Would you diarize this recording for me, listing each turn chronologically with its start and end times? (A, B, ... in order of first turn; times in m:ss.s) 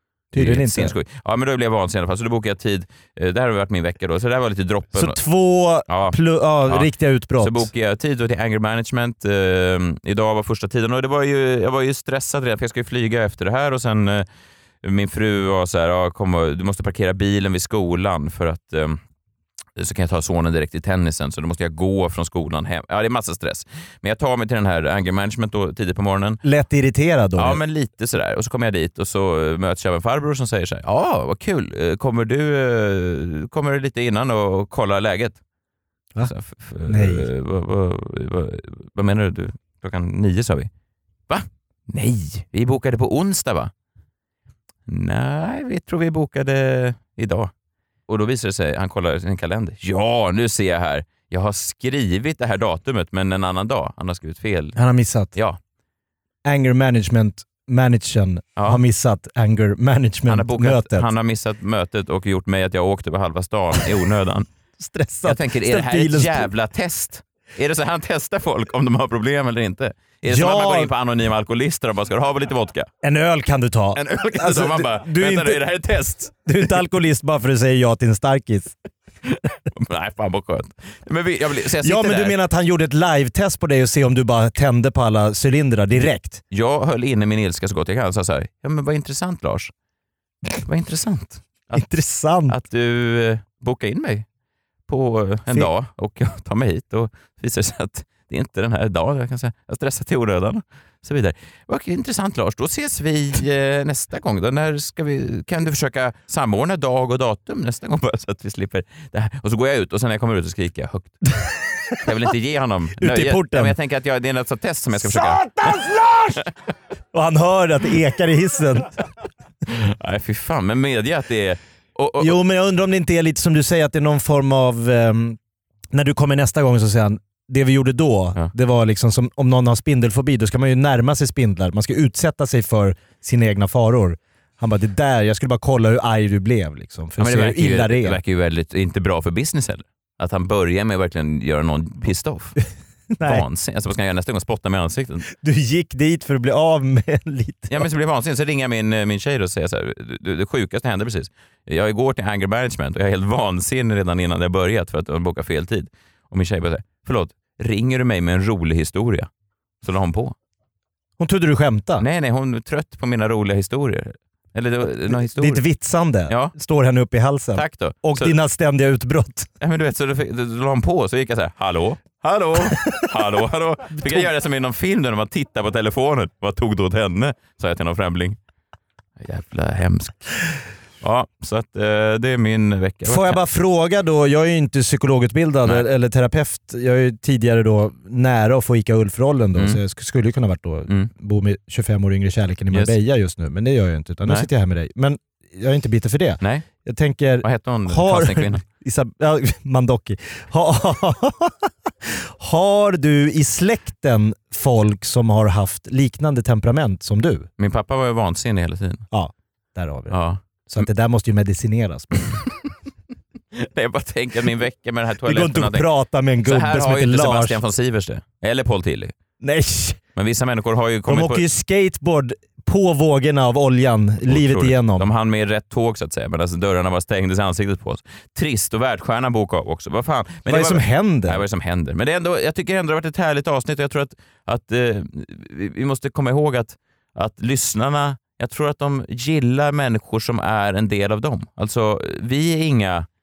0:00.3-0:00.9 A
0:00.4-0:05.2 B
0:04.9-0:07.7 A
0:05.9-0:14.3 B
0:14.8-0:19.0 B
0:19.8-0:26.4 B
0:26.4-0:27.6 A
0:27.4-0:35.4 B
0:36.2-0:40.7 B
0:36.9-0:37.3 A
0:41.3-0:43.7 B
0:44.9-0:47.5 B
0:48.1-0:54.8 B
0:54.8-0:55.3 A
0:56.4-1:01.1 A
0:58.6-0:58.8 B
1:00.2-1:04.5 B
1:04.8-1:06.5 A
1:05.2-1:12.9 B
1:10.2-1:10.9 A
1:13.0-1:15.6 A
1:13.9-1:16.3 B
1:16.4-1:18.8 A
1:19.3-1:22.3 B
1:21.8-1:26.4 A
1:26.5-1:29.7 B
1:30.6-1:31.8 B
1:31.7-1:32.6 A
1:32.5-1:34.2 B
1:34.9-1:51.2 B
1:51.5-1:52.0 A
1:52.0-1:55.8 B
1:53.0-1:53.7 A
1:55.0-1:56.4 A
1:57.1-1:59.0 A
1:59.7-2:02.4 B
2:02.2-2:05.4 A
2:05.9-2:18.2 A
2:17.2-2:22.6 B
2:23.1-2:23.4 A
2:23.2-2:25.3 B
2:25.3-2:27.9 A
2:27.7-2:39.3 B
2:39.8-2:40.3 B
2:41.2-2:42.0 A
2:42.0-2:45.6 B
2:45.0-2:49.5 A
2:46.3-2:46.5 B
2:47.5-2:48.4 B
2:49.6-2:58.4 B
2:52.7-2:53.1 A
2:54.0-2:54.3 A
2:59.2-3:00.3 B
3:01.0-3:03.4 B
3:03.0-3:27.5 A
3:12.7-3:13.0 B
3:16.4-3:16.6 B
3:17.4-3:18.6 B
3:27.6-3:29.0 B
3:29.1-3:32.3 A
3:30.1-3:30.8 B
3:33.5-3:35.9 B
3:35.2-3:37.6 A
3:36.4-3:39.1 B
3:39.4-3:40.0 A
3:40.2-3:41.4 B
3:41.0-3:45.1 A
3:44.2-4:03.1 B
3:50.5-3:51.4 A